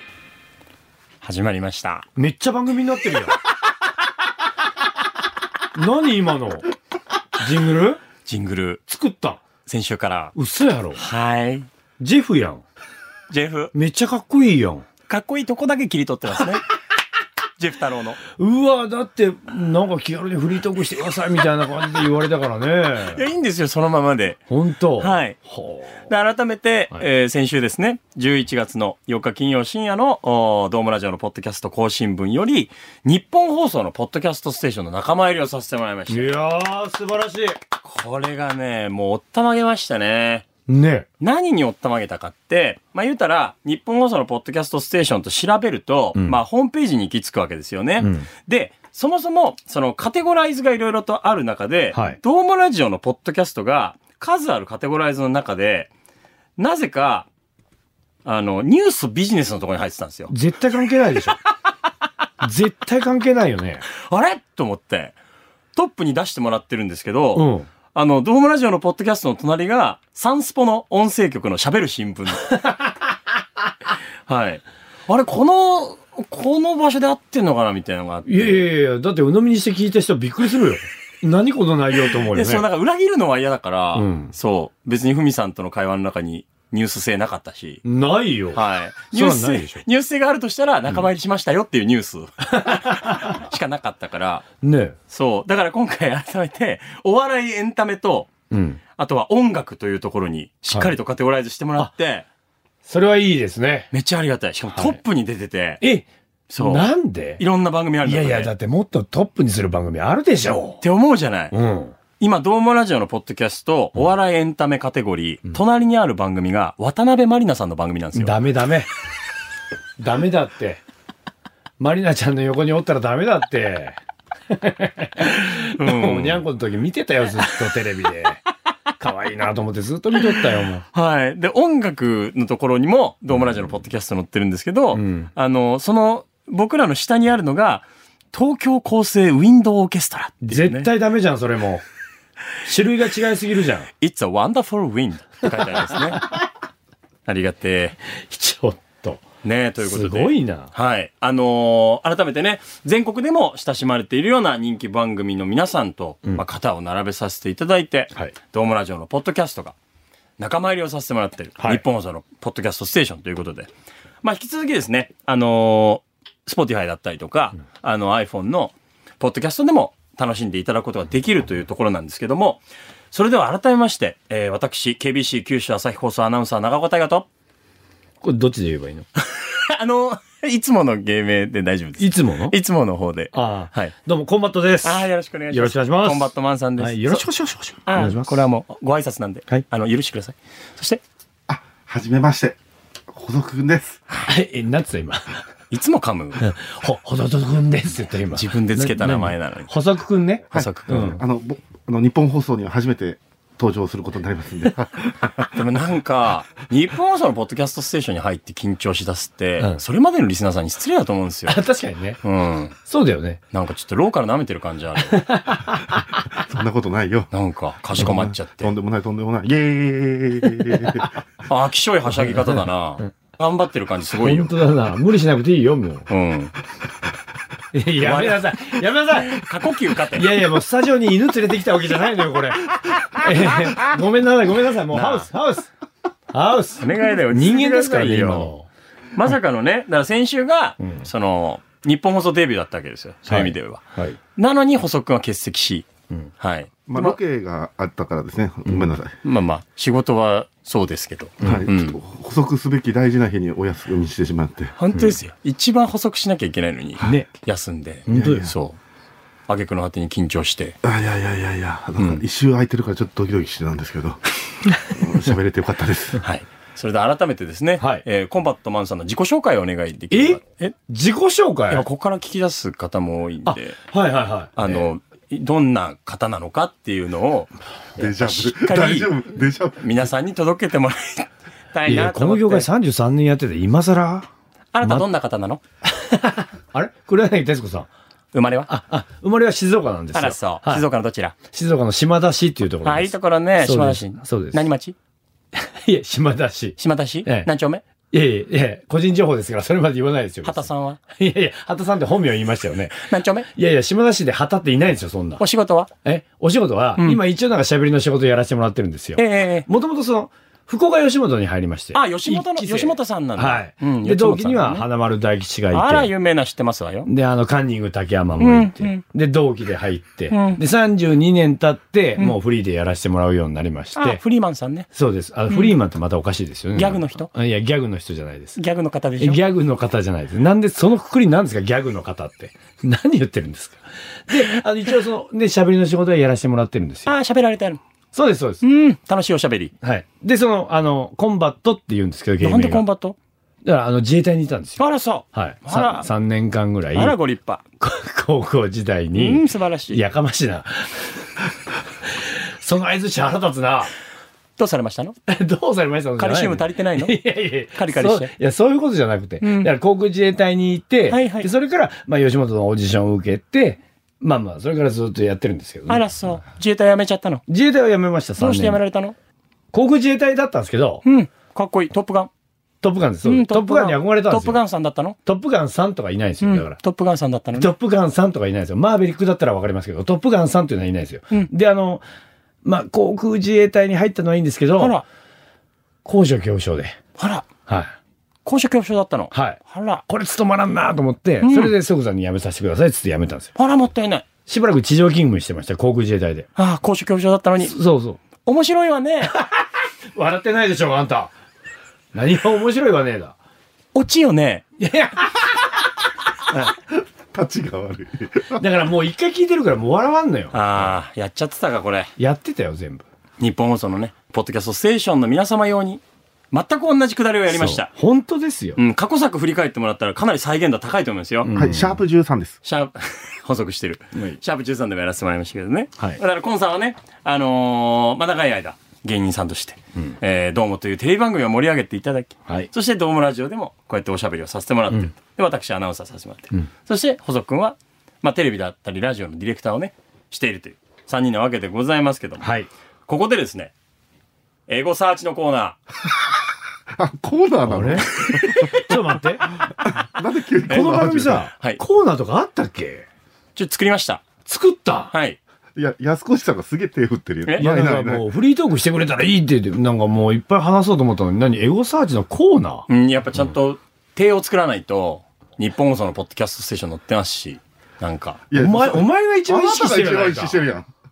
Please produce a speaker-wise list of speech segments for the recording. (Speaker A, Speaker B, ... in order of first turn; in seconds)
Speaker A: 1.2-2.1, 8.2-8.8, 9.7-10.3, 11.0-11.7, 13.3-13.7, 15.1-16.6, 17.6-18.2, 23.1-24.4, 25.0-25.4, 26.1-36.4, 37.8-40.5, 41.2-55.9, 56.6-57.3, 58.2-60.3, 64.1-65.2, 65.7-72.5, 74.3-78.7, 82.1-87.8, 88.5-94.5, 95.1-98.3, 99.0-102.3, 103.9-105.8, 106.5-108.5, 110.8-111.5, 112.2-118.4, 125.2-126.5, 130.9-140.9, 144.0-146.3, 147.3-148.0, 149.4-159.8, 160.4-163.7, 164.2-172.6, 173.1-177.3, 179.2-183.9, 184.8-187.3, 187.9-191.0, 195.7-196.4, 198.3-199.7, 200.5-201.2, 205.5-211.6, 212.2-212.8, 213.5-215.3, 217.3-218.7, 221.5-224.5, 226.1-226.5, 228.0-230.3, 234.9-235.3, 236.8-238.5, 239.1-243.8, 244.4-245.9, 246.4-247.2, 249.2-252.0, 254.8-258.8, 259.5-260.8, 266.2-270.8, 271.7-273.8, 274.6-279.2, 279.8-282.7, 284.7-285.6, 288.3-288.7, 290.1-291.4, 292.8-295.0, 296.8-297.9, 300.4-301.0, 302.9-303.5, 305.4-305.9, 309.2-309.7, 311.9-314.9, 315.7-317.1, 318.4-319.0, 320.3-320.6, 324.0-324.9, 326.8-327.3, 328.6-329.4, 337.1-337.8, 338.6-339.7, 342.4-343.2, 344.8-346.1, 346.9-347.6, 349.1-350.0, 354.6-355.2, 356.2-357.2, 357.7-358.3, 359.4-359.7, 361.1-361.5, 365.9-367.4, 368.4-369.1, 371.1-372.3, 373.2-375.2, 376.4-377.7, 384.8-385.1, 387.2-387.5, 388.4-390.0, 391.4-391.7, 393.6-394.3, 396.6-397.8, 398.4-399.4, 403.9-404.7, 410.5-412.1, 413.4-417.9, 418.8-421.5, 422.6-442.5, 443.1-443.7, 444.7-445.8, 448.2-449.0, 450.7-451.8, 453.6-454.3, 455.1-455.4, 457.4-457.7, 462.9-468.4
Speaker B: 2.2-3.4, 5.7-6.7, 7.4-8.0, 8.9-9.4, 10.3-11.0, 12.0-12.6, 13.7-14.9, 18.4-23.2, 24.5-26.1, 36.1-37.6, 40.7-41.1, 46.1-46.4, 48.0-48.3, 51.9-52.2, 60.3-61.4, 62.4-63.9, 67.3-67.7, 72.5-73.0, 78.3-82.7, 84.0-84.3, 87.8-89.8, 92.5-93.4, 94.6-95.0, 98.5-98.8, 102.8-103.9, 104.7-105.0, 105.8-106.1, 106.6-107.4, 108.0-110.8, 111.5-112.0, 118.1-118.9, 120.0-120.8, 121.8-124.0, 124.5-128.4, 129.0-130.8, 134.9-135.3, 140.4-141.8, 142.6-143.9, 148.2-149.2, 149.8-150.7, 161.6-161.8, 178.2-179.1, 182.0-182.6, 183.3-188.4, 194.2-195.4, 196.4-201.2, 211.5-212.2, 212.8-213.4, 215.1-216.1, 222.2-222.6, 224.2-226.1, 227.7-229.5, 230.1-235.7, 236.3-238.7, 240.8-241.1, 243.3-244.2, 257.0-257.3, 258.1-258.5, 267.8-268.1, 270.1-271.9, 273.5-274.9, 281.9-284.3, 285.9-287.9, 288.7-290.9, 291.5-294.7, 295.5-297.5, 298.1-303.0, 303.6-305.4, 306.0-316.1, 317.1-324.2, 324.9-328.6, 329.2-337.1, 338.1-338.6, 339.8-342.9, 343.6-344.8, 345.3-347.2, 347.8-351.4, 352.0-353.9, 355.3-366.0, 367.5-368.8, 369.7-371.0, 372.8-374.6, 375.2-376.8, 377.6-382.0, 382.6-384.9, 386.1-387.0, 387.7-387.9, 389.3-393.5, 394.5-396.5, 397.6-398.2, 399.3-401.3, 402.1-403.4, 404.8-405.8, 408.6-410.9, 412.2-413.1, 417.5-418.8, 421.4-422.0, 442.4-442.7, 447.7-448.1, 448.7-449.6, 450.7-453.1, 454.5-455.1, 457.6-462.9, 468.5-470.6
Speaker C: 191.5-192.6, 193.1-194.0, 200.5-205.5, 216.3-217.3, 217.9-221.2, 246.9-249.1, 251.4-254.7, 258.1-258.5, 260.8-266.2, 278.0-280.1, 407.3-408.6, 421.5-422.6, 447.0-448.7, 449.9-451.5, 455.8-458.3, 468.5-470.9